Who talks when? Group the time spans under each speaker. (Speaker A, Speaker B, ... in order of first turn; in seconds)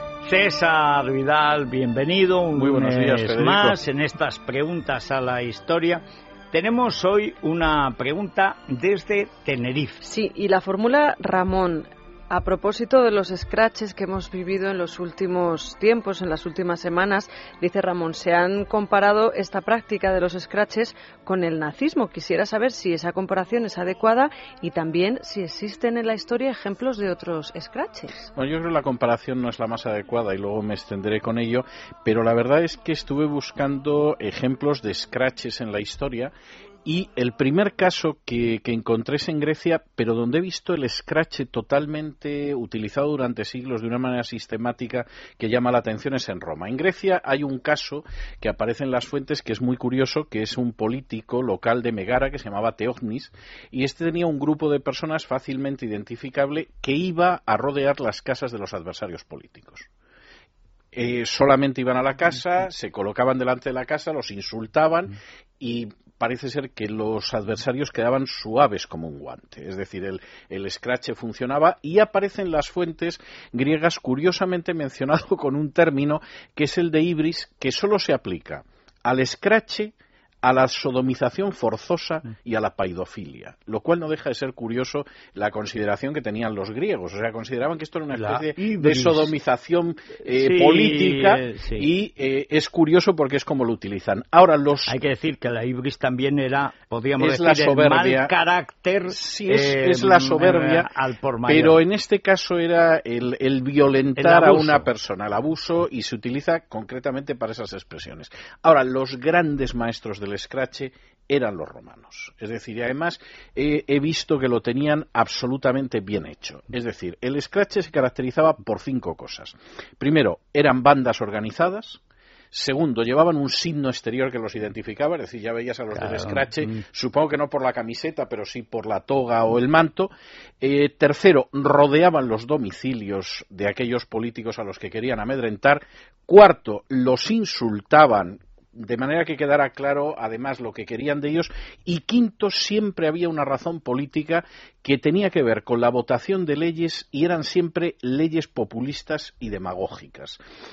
Speaker A: 0.2-10.0, 88.1-89.3, 90.2-91.9, 94.9-101.8, 104.2-104.9, 125.9-126.8
Speaker B: 2.5-3.8, 28.3-36.3, 36.8-59.9, 60.9-95.0, 97.2-98.3, 99.1-100.9, 101.5-122.0, 122.5-150.4
Speaker C: 10.0-28.2